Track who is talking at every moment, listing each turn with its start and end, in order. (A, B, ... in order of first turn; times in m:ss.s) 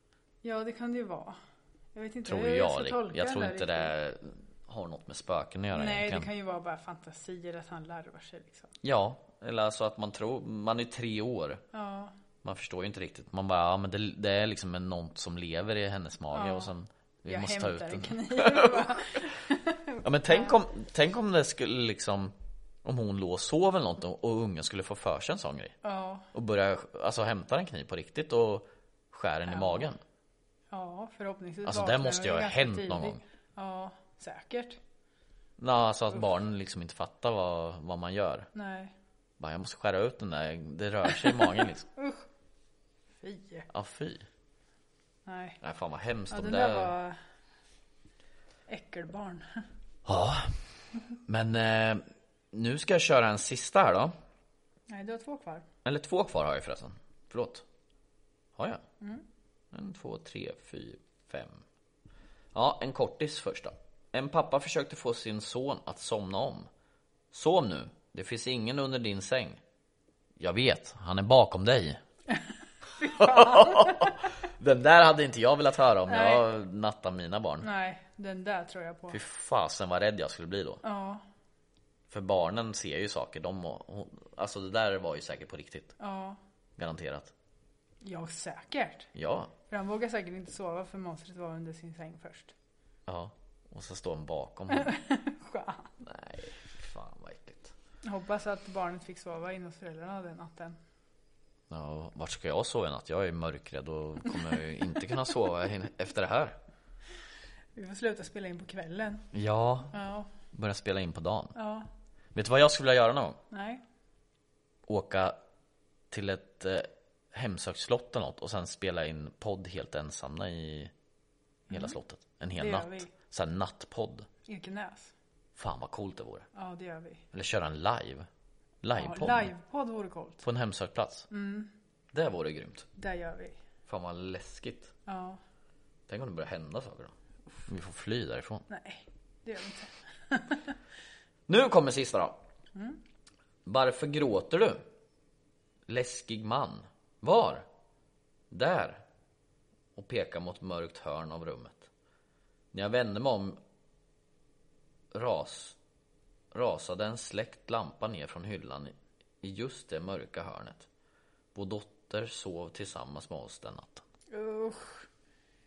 0:00.4-0:01.4 A
0:01.9-0:03.9 A
0:02.2-0:06.3 B
0:05.7-0:08.7 A
0:08.8-0:11.6 B
0:11.7-0:12.1 A
0:12.4-0:19.3 B
0:16.3-0:16.7 A
0:17.3-0:20.6 A
0:20.0-0:22.3 B
0:22.8-0:25.8 B
0:25.8-0:26.2 A
0:26.3-0:30.0 B
0:29.5-0:29.9 A
0:30.7-0:34.8 A
0:31.6-0:33.2 B
0:35.6-0:38.5 B
0:38.5-0:38.9 A
0:39.4-0:41.9 B
0:42.0-0:42.2 A
0:43.2-0:43.7 A
0:43.7-0:44.2 B
0:45.2-0:45.6 A
0:45.6-0:46.9 B
0:46.3-0:47.2 A
0:48.7-0:49.6 A
0:50.0-0:50.6 B
0:51.3-0:54.1 B
0:54.9-0:55.6 A
0:55.8-0:57.6 B
0:58.6-0:58.8 B
0:59.7-1:01.6 B
1:02.5-1:06.7 B
1:07.3-1:09.6 B
1:10.4-1:12.0 B
1:13.0-1:14.1 A
1:13.0-1:17.7 B
1:16.1-1:16.4 A
1:17.6-1:19.2 A
1:19.1-1:20.8 B
1:20.8-1:21.2 A
1:22.1-1:25.9 B
1:26.0-1:26.4 A
1:26.8-1:27.3 B
1:28.0-1:29.1 A
1:29.1-1:29.5 B
1:29.7-1:32.5 A
1:33.1-1:34.9 B
1:34.7-1:35.9 A
1:36.0-1:37.7 B
1:38.0-1:40.8 A
1:41.7-1:46.6 B
1:47.7-1:49.2 A
1:49.3-1:50.0 B
1:49.9-1:50.3 A
1:50.5-1:51.5 B
1:51.5-1:51.9 A
1:52.3-1:53.4 B
1:53.5-1:53.8 A
1:54.9-1:55.4 B
1:56.1-2:00.9 B
2:01.7-2:02.0 A
2:01.7-2:04.3 B
2:02.6-2:03.1 A
2:04.4-2:05.1 A
2:05.6-2:06.5 B
2:06.5-2:07.2 A
2:07.3-2:08.3 B
2:08.8-2:09.5 B
2:09.0-2:10.4 A
2:10.4-2:11.3 B
2:11.3-2:11.7 A
2:12.1-2:12.9 B
2:13.0-2:13.6 A
2:13.9-2:14.9 B
2:15.1-2:15.4 A
2:16.1-2:18.6 B
2:18.7-2:20.7 A
2:21.5-2:22.4 B
2:22.7-2:23.0 A
2:23.6-2:24.8 B
2:25.9-2:27.6 B
2:28.5-2:29.0 B
2:30.0-2:31.9 B
2:32.7-2:33.6 B
2:35.1-2:35.8 B
2:36.5-2:40.9 B
2:41.5-2:44.0 B
2:44.3-2:45.0 A